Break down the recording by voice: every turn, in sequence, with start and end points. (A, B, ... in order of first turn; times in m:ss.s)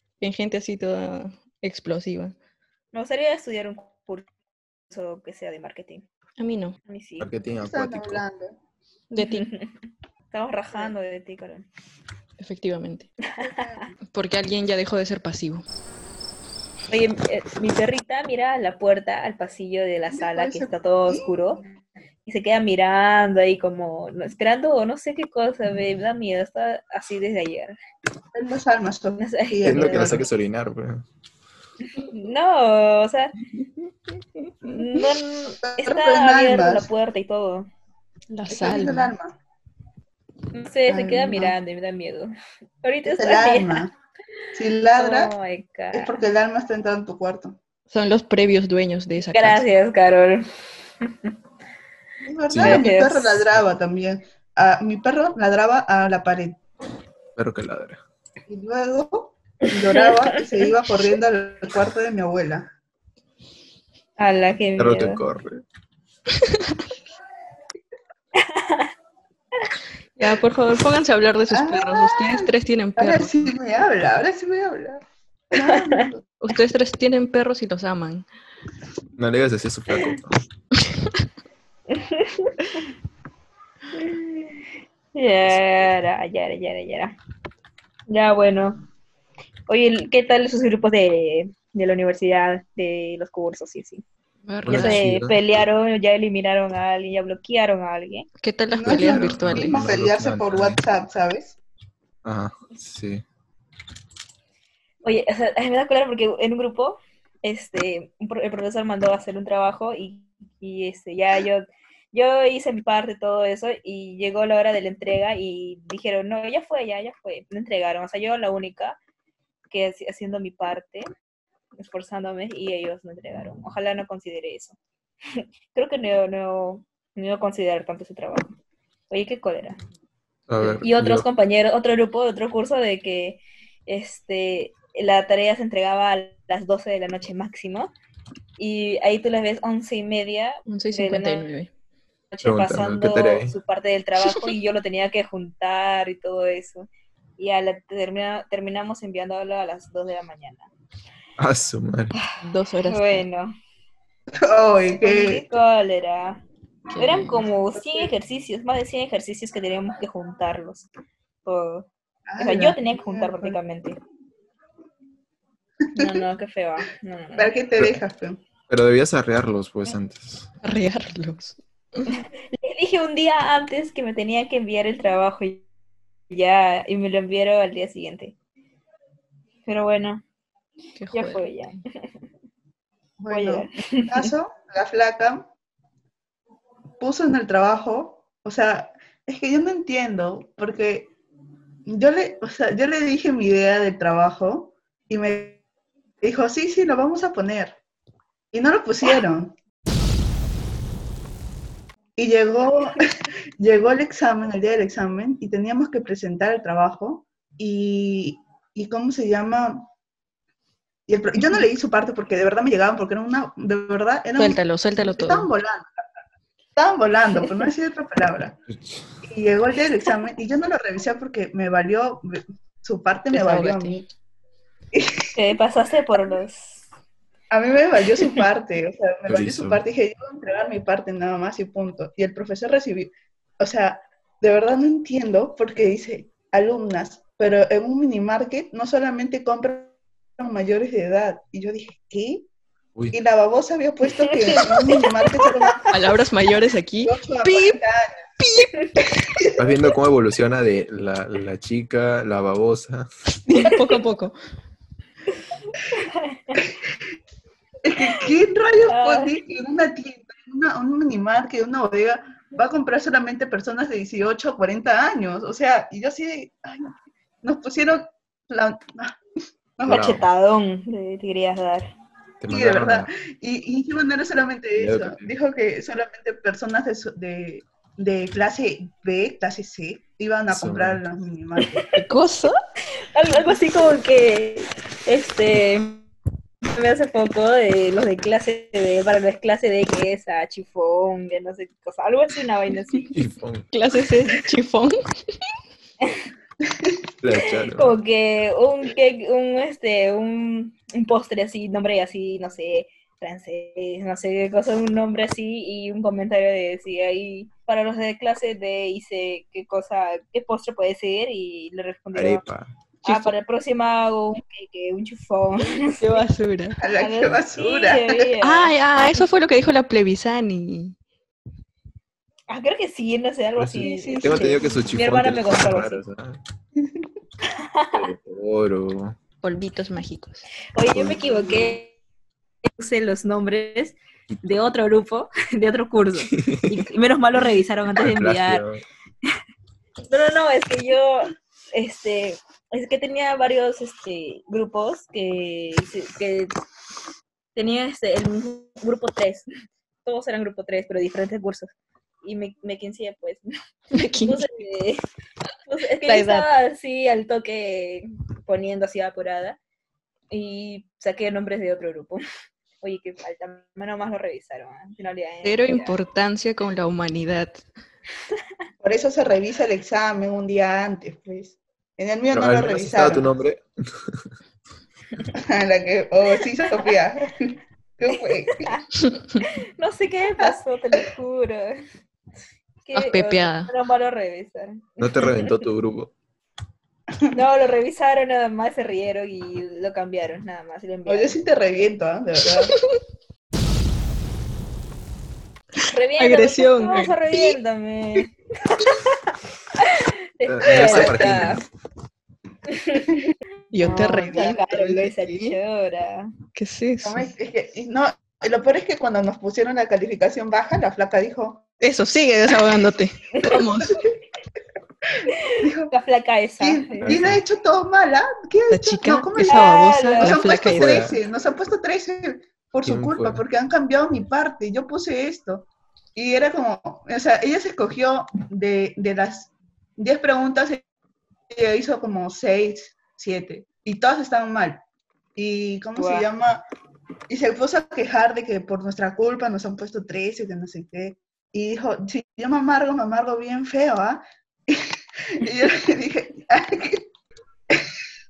0:00.2-0:02.3 A
0:02.9-0:04.3 B
0:04.9-0:06.0 B
0:06.4-0:06.8 A
0:06.8-0:07.3 B
0:07.2-0:08.2 C
0:07.6-0:08.6 D
0:09.1-0:09.5 A
0:09.2-0:09.8 B
0:10.3-0:11.7 B
0:12.4-0:13.1 A
0:13.3-0:13.9 B
0:13.4-0:13.9 D
0:14.1-0:15.6 A
0:16.9-0:21.6 B
0:20.1-0:21.6 D
0:22.2-0:27.8 B
0:28.3-0:30.2 D
0:29.2-0:30.2 B
0:29.6-0:31.0 C
0:31.9-0:33.4 B
0:34.6-0:37.7 B
0:35.6-0:36.9 D
0:38.3-0:39.1 A
0:38.5-0:39.4 D
0:40.5-0:43.8 B
0:40.9-0:41.6 D
0:43.0-0:43.9 D
0:44.5-0:45.3 D
0:45.0-0:46.2 B
0:45.9-0:47.6 D
0:47.9-0:49.6 A
0:49.2-0:50.4 B
0:51.0-0:51.3 B
0:52.2-0:56.6 D
0:52.5-0:52.8 C
0:52.6-0:53.5 B
0:57.4-0:58.0 C
0:58.5-1:02.7 D
1:04.2-1:05.2 B
1:04.8-1:05.6 C
1:06.4-1:06.8 A
1:08.4-1:08.9 B
1:10.2-1:13.5 A
1:11.5-1:16.3 D
1:15.6-1:16.1 B
1:16.4-1:18.2 A
1:19.2-1:20.4 C
1:21.9-1:22.5 B
1:23.9-1:24.6 B
1:25.1-1:27.1 B
1:25.5-1:25.9 C
1:28.1-1:28.8 B
1:29.7-1:34.0 B
1:34.5-1:35.0 A
1:34.6-1:35.4 C
1:34.7-1:38.3 B
1:38.4-1:39.8 A
1:38.8-1:41.6 D
1:38.8-1:40.8 C
1:42.2-1:43.2 C
1:45.0-1:59.0 B
1:59.7-2:01.1 B
2:01.8-2:04.8 B
2:05.3-2:08.5 B
2:09.1-2:09.8 B
2:10.5-2:11.3 C
2:10.6-2:17.9 B
2:18.6-2:21.4 B
2:20.7-2:21.7 A
2:22.3-2:30.7 B
2:22.4-2:23.6 C
2:31.4-2:32.2 C
2:32.4-2:33.2 A
2:32.9-2:33.5 B
2:34.4-2:35.4 D
2:35.0-2:36.4 B
2:36.9-2:37.4 A
2:37.0-2:40.9 B
2:37.8-2:38.1 D
2:41.4-2:44.0 B
2:42.3-2:43.6 D
2:45.8-2:46.2 D
2:46.0-2:47.5 B
2:47.4-2:48.4 D
2:48.7-2:50.5 C
2:50.6-2:52.2 A
2:52.1-2:55.6 B
2:56.3-2:58.3 B
2:59.6-3:00.2 B
3:01.0-3:01.4 A
3:01.1-3:02.0 B
3:03.2-3:05.5 D
3:03.3-3:04.3 B
3:07.0-3:11.1 D
3:11.8-3:15.6 D
3:16.2-3:17.8 D
3:18.5-3:19.6 D
3:22.2-3:29.9 D
3:31.1-3:36.0 D
3:34.4-3:35.5 A
3:36.8-3:38.6 D
3:38.7-3:39.1 C
3:39.2-3:44.1 D
3:43.3-3:44.0 A
3:44.9-3:45.4 D
3:45.4-3:46.8 B
3:47.5-4:02.4 D
3:49.3-3:49.8 C
4:03.1-4:05.9 D
4:04.2-4:05.8 B
4:05.9-4:07.8 A
4:07.0-4:08.2 D
4:08.4-4:09.0 A
4:09.6-4:13.1 C
4:13.5-4:14.3 A
4:15.9-4:16.6 B
4:17.8-4:29.2 D
4:18.9-4:19.3 B
4:29.8-4:30.1 D
4:29.9-4:30.2 C
4:29.9-4:31.9 B
4:32.4-4:33.1 C
4:32.5-4:41.8 D
4:34.7-4:35.3 C
4:40.5-4:41.0 C
4:41.6-4:41.9 B
4:41.9-4:42.5 A
4:43.1-4:46.0 B
4:46.7-4:53.1 B
4:53.1-4:53.7 C
4:53.7-4:54.9 A
4:56.7-4:57.0 D
4:57.2-4:57.9 C
4:57.4-5:12.4 B
5:12.1-5:12.7 C
5:13.0-5:16.2 B
5:13.0-5:13.3 A
5:16.0-5:16.8 A
5:16.8-5:18.3 D
5:17.0-5:19.2 B
5:18.4-5:21.0 A
5:22.5-5:26.0 B
5:23.6-5:26.4 C
5:23.8-5:24.8 A
5:27.5-5:28.0 B
5:27.9-5:29.2 C
5:29.4-5:30.4 A
5:30.7-5:31.9 B
5:30.9-5:31.8 C
5:32.6-5:38.6 B
5:36.2-5:36.8 C
5:38.0-5:38.8 C
5:40.1-5:46.5 B
5:47.5-5:49.5 B
5:50.0-5:51.7 B
5:52.2-5:55.0 B
5:53.9-5:54.4 A
5:55.7-5:59.6 B
5:56.0-5:56.5 A
6:00.3-6:02.2 B
6:02.8-6:05.9 B
6:05.4-6:07.6 A
6:08.8-6:13.3 D
6:12.3-6:14.3 C
6:15.4-6:18.7 D
6:18.5-6:18.8 B
6:19.0-6:19.4 A
6:19.4-6:21.8 B
6:22.8-6:25.6 B
6:22.9-6:23.7 A
6:25.0-6:26.1 C
6:27.3-6:31.4 B
6:31.0-6:32.7 D
6:35.9-6:39.2 B
6:36.2-6:37.6 A
6:39.7-6:41.6 B
6:40.4-6:41.6 C
6:40.7-6:41.4 A
6:40.8-6:41.1 D
6:42.7-6:43.1 B
6:43.7-6:44.5 A
6:43.8-6:46.3 B
6:44.1-6:45.1 D
6:45.1-6:45.6 A
6:46.5-6:47.3 A
6:47.0-6:51.6 D
6:51.8-6:54.0 A
6:55.2-6:55.9 D
6:55.9-6:57.2 B
6:56.6-7:10.8 D
6:57.0-6:57.4 C
6:58.7-7:01.1 A
6:59.5-7:00.4 B
7:00.6-7:01.2 C
7:02.8-7:03.4 C
7:11.5-7:14.8 D
7:15.4-7:16.6 D
7:16.0-7:16.3 B
7:17.3-7:27.0 D